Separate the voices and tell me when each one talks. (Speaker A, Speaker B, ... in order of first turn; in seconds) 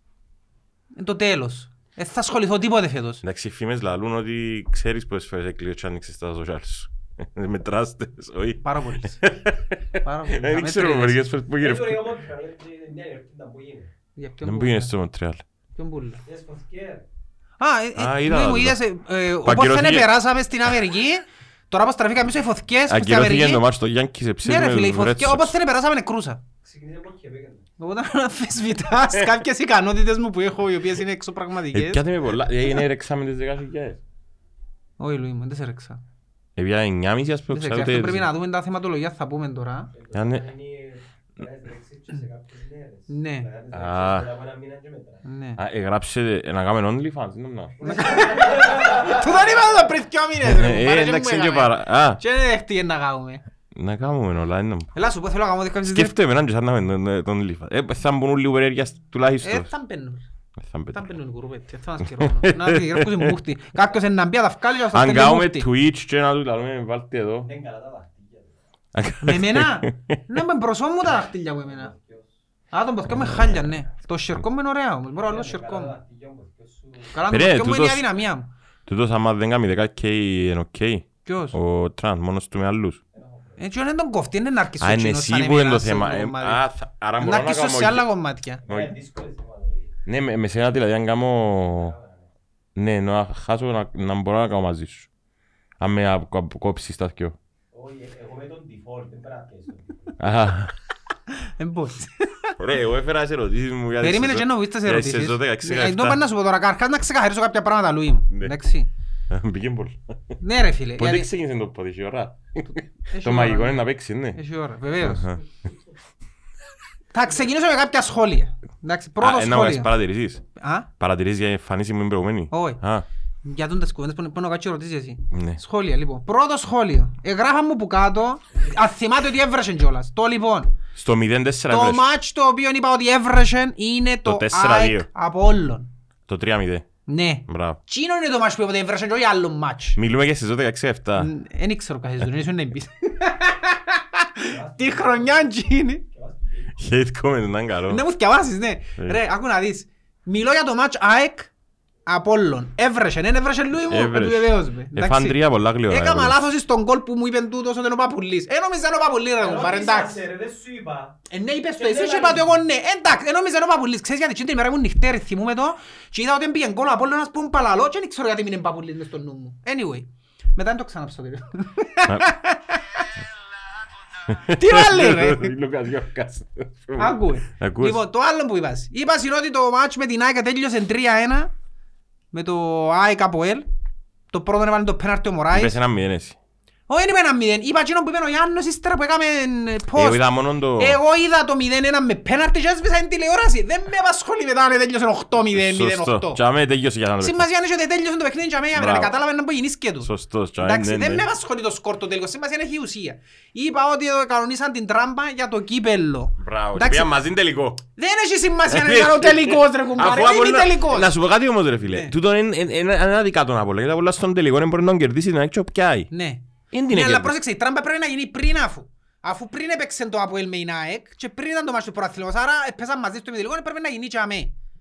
Speaker A: 0.9-3.2, 8.6-9.3, 10.0-11.2, 14.2-14.9, 15.8-16.2, 17.6-23.6, 24.4-26.4, 27.8-32.0, 35.0-36.0, 37.5-39.9, 43.1-43.5, 45.2-45.6, 47.8-53.4, 55.0-56.1, 59.4-60.2, 60.9-65.7, 69.2-71.9, 72.7-76.0, 77.1-78.5, 81.3-81.6, 83.6-86.6, 87.2-88.6, 101.3-102.5, 104.0-108.9, 110.4-111.3, 113.0-115.3, 117.1-119.9, 120.6-120.9, 122.5-122.8, 123.4-130.7, 131.7-135.9, 137.1-140.0, 141.2-146.0, 147.9-151.5, 152.1-160.2, 161.3-173.1, 174.5-175.6, 177.0-181.5, 182.3-183.7, 184.3-185.8, 186.9-196.4, 197.2-207.1, 208.0-211.1, 211.9-212.2, 216.1-224.5
Speaker B: 3.2-12.2, 14.4-15.4, 18.0-18.8, 19.4-20.1, 22.9-25.6, 29.1-29.4, 31.7-34.0, 36.6-38.3, 40.1-40.5, 43.7-44.3, 45.6-47.9, 50.4-52.2, 53.7-54.9, 55.9-59.7, 60.6-61.1, 62.1-63.4, 64.9-67.5, 68.9-70.2, 77.2-78.1, 78.9-83.0, 84.8-88.1, 88.7-88.9, 90.1-92.0, 92.8-95.1, 95.8-97.4, 100.2-100.7, 102.6-106.2, 109.3-110.4, 111.0-114.4, 115.0-115.4, 119.2-120.4, 121.0-123.1, 125.3-125.6, 130.9-132.0, 134.2-135.1, 136.3-136.9, 137.5-137.8, 140.0-141.3, 146.8-148.0, 153.9-156.4, 174.2-178.0, 185.5-186.4, 189.9-191.0, 195.5-197.5, 198.7-199.1, 200.0-201.3, 206.4-207.8, 208.7-216.1, 216.7-217.4
Speaker C: 11.6-13.9, 16.2-17.1, 26.6-27.7, 39.9-45.2, 47.8-49.8, 67.4-68.6, 71.6-72.4, 75.1-77.2, 83.1-83.7, 88.6-90.0, 91.7-92.3, 97.7-100.1, 144.4-145.5, 146.1-146.8, 159.4-161.2, 161.8-162.6